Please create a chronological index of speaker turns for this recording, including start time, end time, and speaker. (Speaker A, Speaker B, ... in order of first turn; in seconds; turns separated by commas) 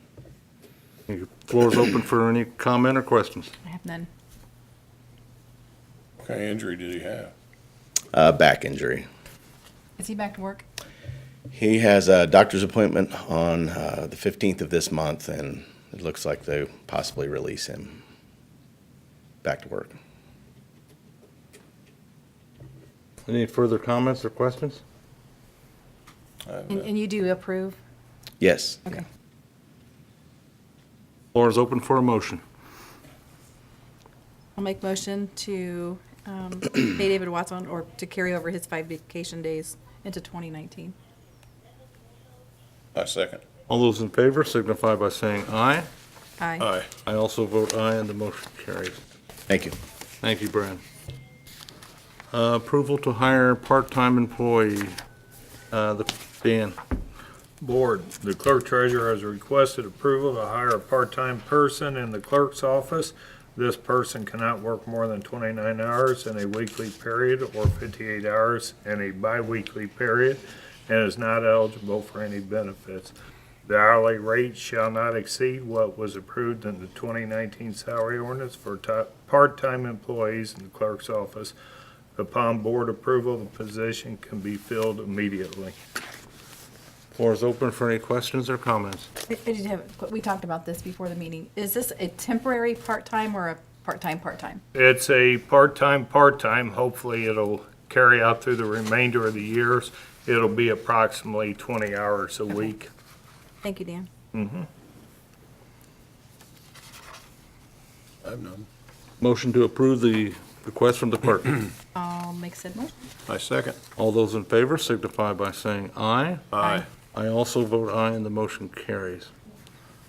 Speaker A: 1.1-3.5, Speaker B: 3.7-4.1, Speaker C: 6.2-7.3, Speaker D: 8.1-9.1, Speaker B: 10.0-10.7, Speaker D: 11.5-18.0, Speaker D: 19.4-19.9, Speaker A: 23.3-24.8, Speaker C: 26.5-26.9, Speaker B: 26.7-27.8, Speaker D: 28.4-28.8, Speaker A: 31.3-32.4, Speaker B: 34.6-41.0, Speaker C: 43.0-43.4, Speaker A: 43.7-45.9, Speaker B: 46.4-46.6, Speaker C: 46.6-46.9, Speaker A: 47.0-49.0, Speaker A: 50.2-50.8, Speaker A: 52.3-55.0, Speaker A: 55.7-56.8, Speaker E: 57.6-73.1, Speaker E: 73.7-81.5, Speaker E: 82.2-85.8, Speaker A: 87.1-89.1, Speaker B: 89.3-94.6, Speaker E: 94.7-102.9, Speaker B: 103.6-104.1, Speaker E: 104.3-104.7, Speaker C: 108.2-108.7, Speaker A: 109.2-111.6, Speaker B: 111.9-112.9, Speaker C: 113.3-113.8, Speaker A: 114.0-116.5, Speaker C: 116.5-116.9, Speaker A: 117.0-119.3